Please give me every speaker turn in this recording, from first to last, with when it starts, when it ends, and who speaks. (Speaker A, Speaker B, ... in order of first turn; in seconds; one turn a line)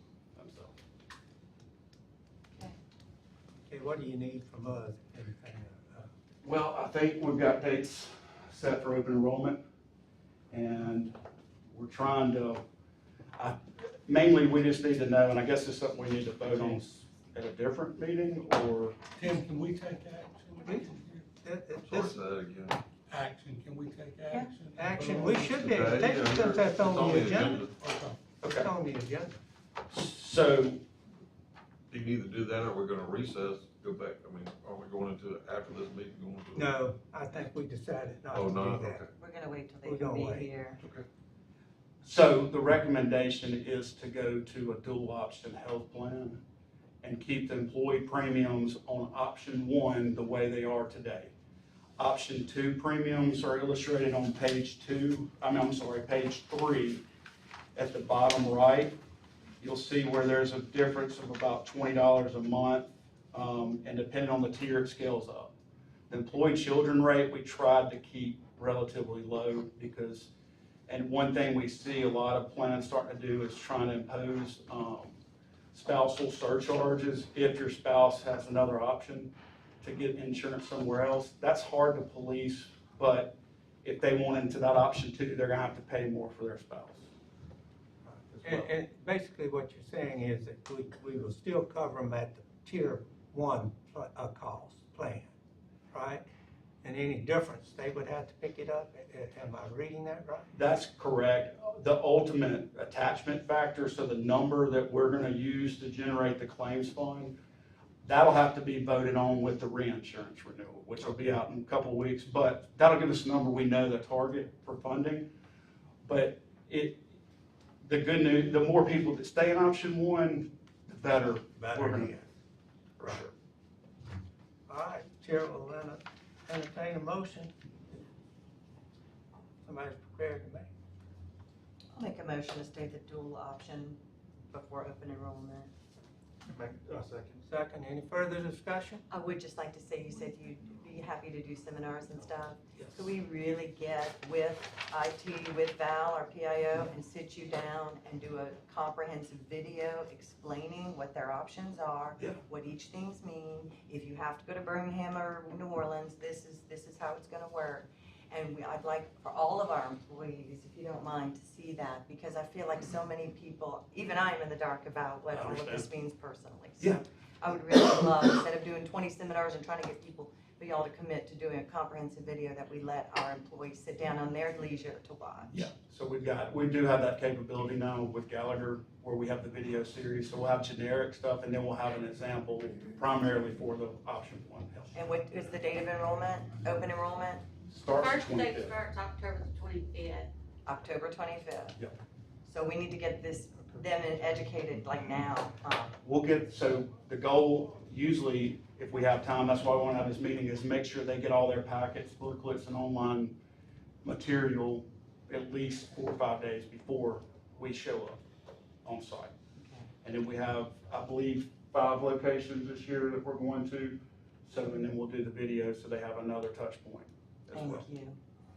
Speaker A: 0.4-0.7
Speaker B: 3.7-6.1
Speaker A: 6.4-9.6
Speaker A: 10.5-11.2
Speaker A: 11.7-12.6
Speaker A: 13.4-19.0
Speaker C: 19.2-21.3
Speaker B: 20.6-22.2
Speaker D: 21.8-22.8
Speaker C: 23.1-25.8
Speaker B: 24.8-27.7
Speaker D: 25.6-27.7
Speaker C: 27.9-28.2
Speaker B: 28.4-29.4
Speaker A: 28.4-28.7
Speaker A: 29.9-30.8
Speaker D: 31.9-36.8
Speaker B: 36.5-39.0
Speaker D: 38.3-39.1
Speaker E: 39.1-40.8
Speaker B: 39.8-40.6
Speaker D: 40.8-41.1
Speaker A: 42.0-46.4
Speaker A: 47.0-51.3
Speaker A: 52.0-57.0
Speaker A: 57.8-59.0
Speaker A: 59.6-65.5
Speaker A: 66.1-70.3
Speaker A: 70.9-75.2
Speaker A: 75.7-87.1
Speaker B: 88.1-95.3
Speaker A: 88.3-88.7
Speaker B: 95.9-96.2
Speaker B: 96.8-100.5
Speaker A: 100.5-107.4
Speaker A: 108.0-115.3
Speaker A: 116.0-117.1
Speaker A: 117.8-122.3
Speaker B: 121.6-122.2
Speaker A: 123.0-123.3
Speaker B: 124.7-127.5
Speaker B: 129.6-130.7
Speaker E: 131.9-135.7
Speaker B: 137.4-139.0
Speaker E: 139.1-175.6
Speaker A: 142.8-143.1
Speaker A: 165.3-165.9
Speaker A: 175.5-184.9
Speaker E: 184.9-187.4
Speaker A: 187.7-188.8
Speaker F: 187.9-190.3
Speaker E: 190.7-191.8
Speaker E: 192.4-196.0
Speaker A: 196.0-203.3
Speaker A: 204.0-208.2
Speaker A: 208.8-209.3
Speaker E: 209.6-209.9
Speaker A: 210.0-217.8
Speaker E: 217.5-218.2